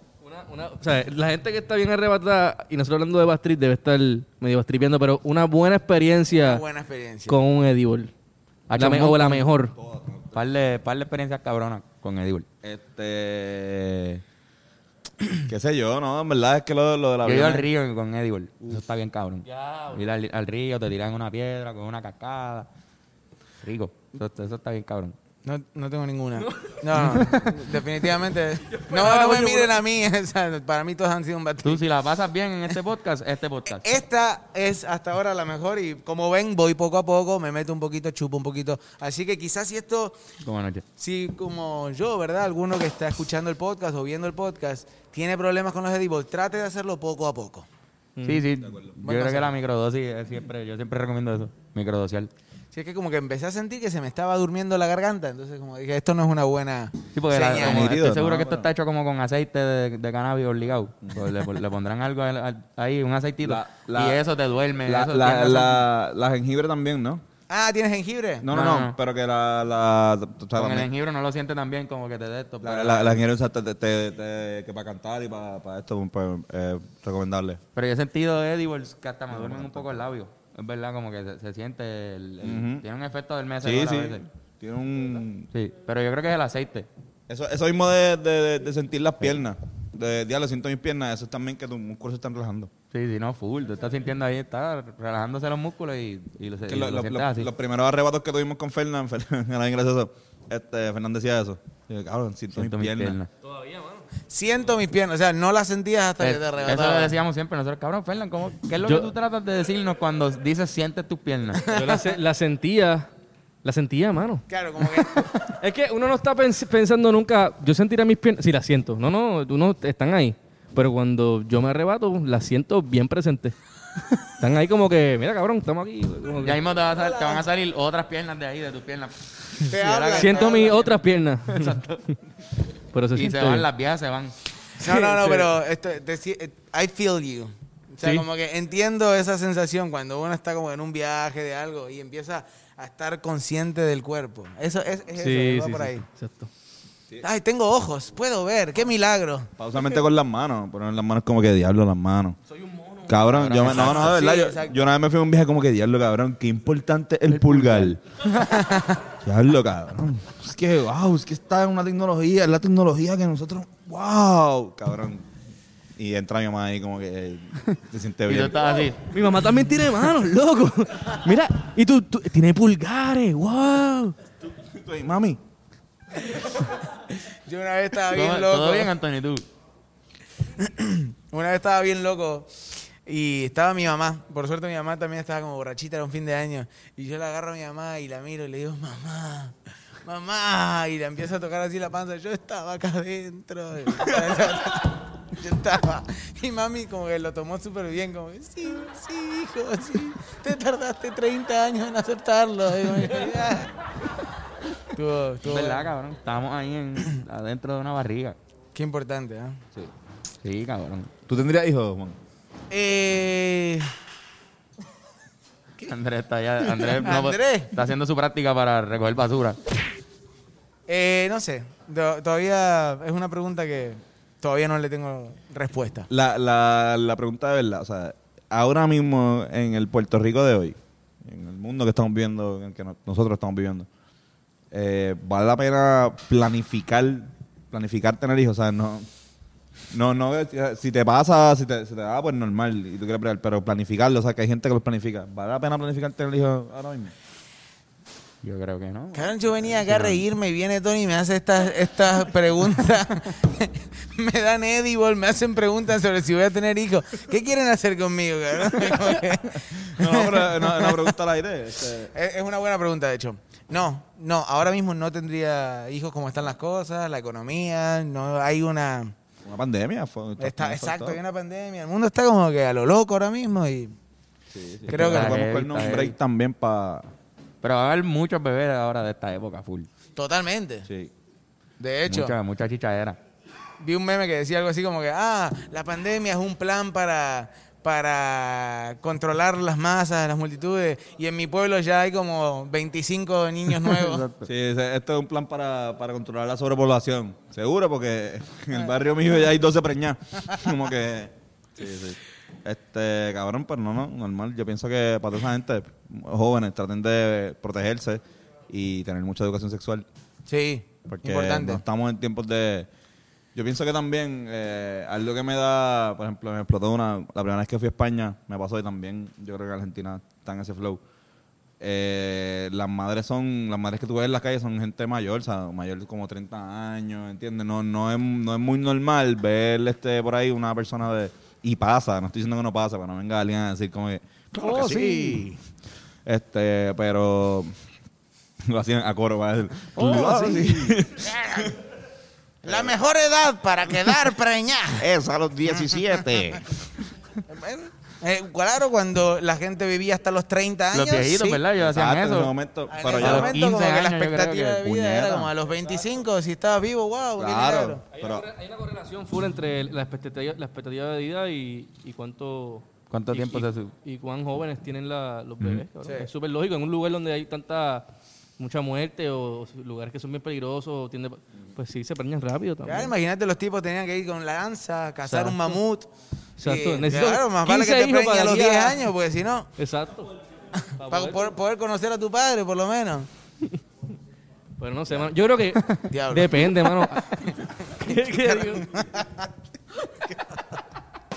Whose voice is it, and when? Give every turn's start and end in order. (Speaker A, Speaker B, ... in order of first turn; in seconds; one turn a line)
Speaker A: 0.2-6.6
Speaker B: 6.3-7.4
Speaker A: 7.3-8.1
Speaker C: 8.7-9.5
Speaker A: 8.7-9.7
Speaker D: 9.7-10.4
Speaker C: 10.3-12.4
Speaker D: 12.6-14.2
Speaker D: 15.5-17.7
Speaker C: 17.2-22.7
Speaker A: 19.5-20.1
Speaker C: 23.6-25.1
Speaker B: 25.4-31.8
Speaker C: 26.9-27.7
Speaker A: 28.7-29.7
Speaker C: 31.6-33.9
Speaker B: 33.7-40.2
Speaker C: 40.4-40.8
Speaker B: 41.0-47.7
Speaker A: 48.1-48.4
Speaker C: 48.2-52.3
Speaker D: 48.6-48.9
Speaker B: 49.0-49.5
Speaker B: 52.7-57.9
Speaker C: 57.1-65.9
Speaker D: 57.5-58.7
Speaker D: 61.0-61.3
Speaker D: 63.4-64.2
Speaker D: 64.8-67.2
Speaker B: 67.5-68.5
Speaker D: 68.4-70.9
Speaker C: 68.5-69.0
Speaker C: 70.5-73.2
Speaker D: 72.6-77.6
Speaker C: 77.7-84.2
Speaker D: 79.3-80.1
Speaker D: 82.4-82.8
Speaker D: 83.6-85.5
Speaker C: 85.5-86.9
Speaker D: 87.3-92.7
Speaker C: 92.9-97.5
Speaker D: 96.7-103.2
Speaker C: 102.5-103.3
Speaker A: 103.4-104.1
Speaker B: 104.3-107.1
Speaker C: 106.2-111.6
Speaker A: 108.8-109.1
Speaker A: 111.6-113.1
Speaker B: 111.6-112.1
Speaker A: 113.6-123.5
Speaker B: 114.5-115.3
Speaker A: 124.2-126.6
Speaker C: 126.4-130.9
Speaker B: 126.8-127.4
Speaker B: 129.7-130.9
Speaker A: 130.1-131.8
Speaker C: 131.5-132.0
Speaker A: 132.9-133.7
Speaker C: 133.1-134.3
Speaker B: 134.8-146.0
Speaker A: 134.8-135.5
Speaker A: 145.2-146.5
Speaker B: 147.2-149.5
Speaker D: 149.6-152.4
Speaker A: 152.6-153.3
Speaker D: 153.1-158.0
Speaker C: 153.4-154.0
Speaker B: 153.5-154.7
Speaker C: 157.4-158.0
Speaker B: 158.3-159.0
Speaker D: 159.1-165.3
Speaker D: 166.0-168.7
Speaker C: 168.3-169.1
Speaker A: 169.1-174.2
Speaker D: 174.5-175.4
Speaker B: 176.3-178.9
Speaker C: 178.1-179.4
Speaker B: 180.5-203.7
Speaker B: 204.9-205.9
Speaker C: 205.4-208.3
Speaker B: 208.7-209.6
Speaker C: 210.4-211.1
Speaker D: 211.2-212.2
Speaker B: 212.7-213.9
Speaker C: 215.8-219.6
Speaker B: 216.9-217.7
Speaker B: 220.9-226.1
Speaker D: 226.1-233.9
Speaker D: 234.7-239.1
Speaker D: 239.9-247.1
Speaker C: 248.4-250.2
Speaker B: 249.1-261.1
Speaker D: 259.5-262.1
Speaker B: 262.1-269.1
Speaker D: 269.4-271.2
Speaker B: 270.4-273.9
Speaker D: 274.5-277.1
Speaker B: 274.9-275.4
Speaker C: 274.9-276.1
Speaker C: 277.6-279.9
Speaker B: 280.1-280.9
Speaker D: 280.9-281.1
Speaker B: 281.8-282.3
Speaker C: 282.1-283.2
Speaker B: 283.8-294.2
Speaker C: 293.8-294.5
Speaker D: 294.4-310.1
Speaker B: 310.5-311.8
Speaker D: 311.1-312.9
Speaker D: 313.5-321.0
Speaker D: 321.8-335.6
Speaker B: 334.6-335.5
Speaker D: 336.2-337.7
Speaker D: 338.6-341.8
Speaker B: 340.0-340.7
Speaker C: 340.0-340.9
Speaker B: 341.2-341.7
Speaker D: 342.6-342.9
Speaker B: 342.6-345.1
Speaker D: 345.0-346.7
Speaker B: 345.6-346.6
Speaker B: 347.4-351.6
Speaker C: 350.9-352.5
Speaker D: 351.7-353.6
Speaker B: 352.9-358.0
Speaker C: 353.2-354.9
Speaker D: 354.8-355.5
Speaker D: 357.4-358.5
Speaker A: 358.2-368.1
Speaker C: 363.1-363.9
Speaker B: 366.0-366.3
Speaker A: 368.6-373.1
Speaker B: 372.8-376.1
Speaker A: 375.2-375.8
Speaker A: 376.6-379.0
Speaker B: 376.6-379.7
Speaker A: 379.8-380.3
Speaker B: 380.8-383.3
Speaker A: 381.0-381.5
Speaker A: 384.8-388.9
Speaker B: 386.1-386.8
Speaker B: 387.4-389.5
Speaker B: 390.2-390.8